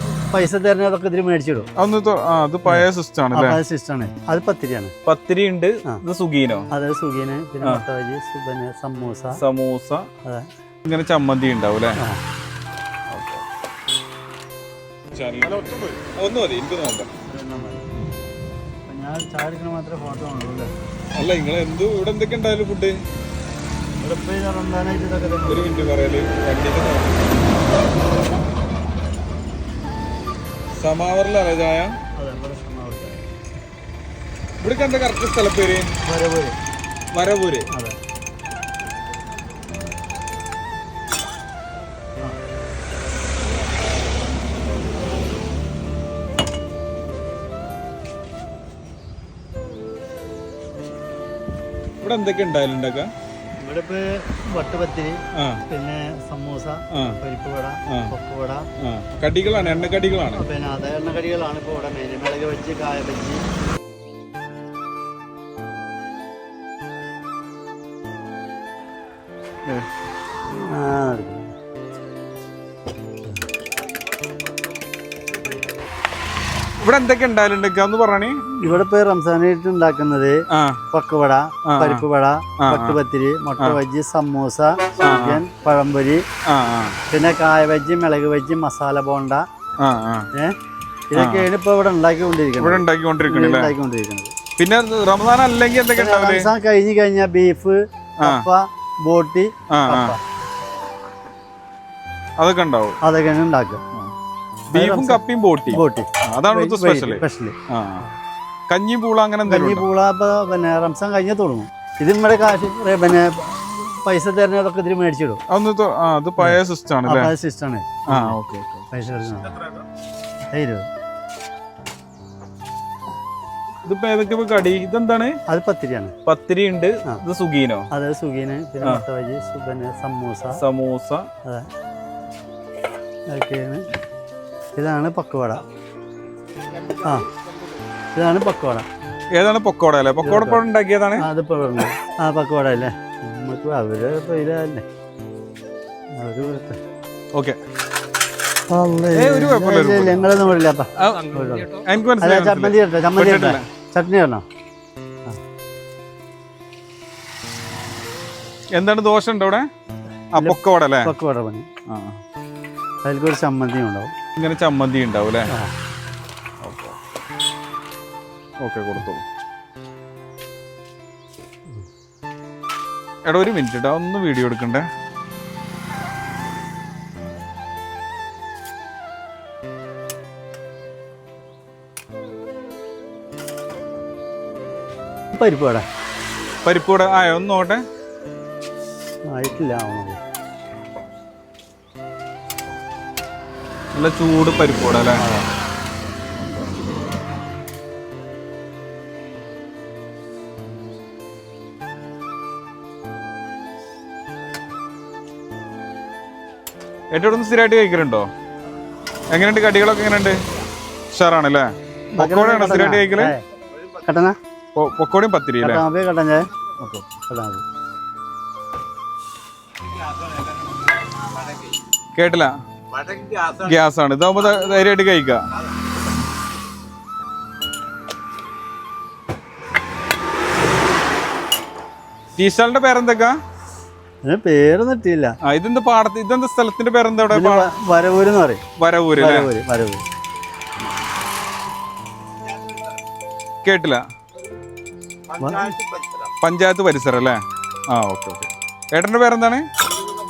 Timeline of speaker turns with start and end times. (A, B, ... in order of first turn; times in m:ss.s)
0:00.3-0:01.6 A
0:01.8-0:03.6 B
0:02.6-0:04.9 A
0:05.1-0:06.7 B
0:06.7-0:09.4 A
0:09.4-0:10.0 B
0:10.8-0:12.0 B
0:13.1-0:13.4 B
0:15.1-0:17.1 B
0:17.2-0:17.9 A
0:18.8-0:20.7 A
0:21.2-0:22.9 B
0:24.0-0:25.7 A
0:25.5-0:27.4 B
0:30.8-0:31.9 B
0:32.2-0:33.2 A
0:34.6-0:35.9 B
0:36.0-0:36.6 A
0:37.1-0:37.6 B
0:52.0-0:53.1 B
0:53.6-0:58.7 A
0:58.8-1:00.4 B
0:59.9-1:03.4 A
1:10.5-1:11.5 A
1:16.8-1:18.7 B
1:18.6-1:20.4 A
1:20.5-1:20.8 B
1:20.9-1:26.2 A
1:21.7-1:22.0 B
1:22.6-1:23.0 B
1:25.0-1:25.4 B
1:26.5-1:27.0 B
1:27.1-1:29.4 A
1:29.8-1:30.3 B
1:31.1-1:34.3 A
1:31.2-1:31.5 B
1:32.6-1:33.7 B
1:34.6-1:36.5 B
1:35.9-1:40.2 A
1:39.7-1:40.2 B
1:42.4-1:43.0 B
1:43.0-1:43.8 A
1:44.7-1:48.0 B
1:44.7-1:48.1 A
1:48.7-1:49.8 B
1:49.4-1:55.4 A
1:55.5-1:57.3 B
1:56.4-1:58.4 A
1:58.1-1:58.8 B
1:58.9-1:59.5 A
2:00.5-2:00.8 A
2:03.8-2:05.4 B
2:05.5-2:06.1 A
2:06.2-2:07.9 B
2:07.9-2:10.6 A
2:10.6-2:11.2 B
2:13.3-2:13.8 A
2:14.8-2:15.6 A
2:17.0-2:17.3 A
2:18.1-2:18.9 A
2:19.3-2:21.2 B
2:20.2-2:20.6 A
2:21.2-2:24.8 A
2:26.2-2:26.8 A
2:28.7-2:34.4 A
2:29.2-2:30.3 B
2:31.0-2:33.6 B
2:38.7-2:39.6 B
2:40.3-2:41.1 B
2:40.4-2:41.7 A
2:41.9-2:42.2 B
2:43.0-2:44.1 A
2:44.4-2:45.5 B
2:46.6-2:47.0 B
2:48.6-2:49.2 B
2:53.2-2:54.8 B
3:05.3-3:05.8 A
3:06.6-3:07.8 B
3:09.3-3:10.2 A
3:13.9-3:15.2 B
3:15.2-3:15.5 A
3:27.1-3:28.2 B
3:29.3-3:30.4 B
3:31.1-3:33.3 B
3:32.2-3:33.4 A
3:34.0-3:34.3 A
3:34.7-3:35.8 B
3:35.6-3:37.6 A
3:42.2-3:45.4 B
3:52.4-3:53.3 B
3:54.2-3:55.4 A
3:55.4-3:57.7 B
3:57.3-3:58.6 A
3:58.8-3:59.5 B
3:59.2-4:00.0 A
4:03.6-4:04.0 B
4:05.4-4:05.7 A
4:06.4-4:07.4 B
4:07.9-4:09.6 B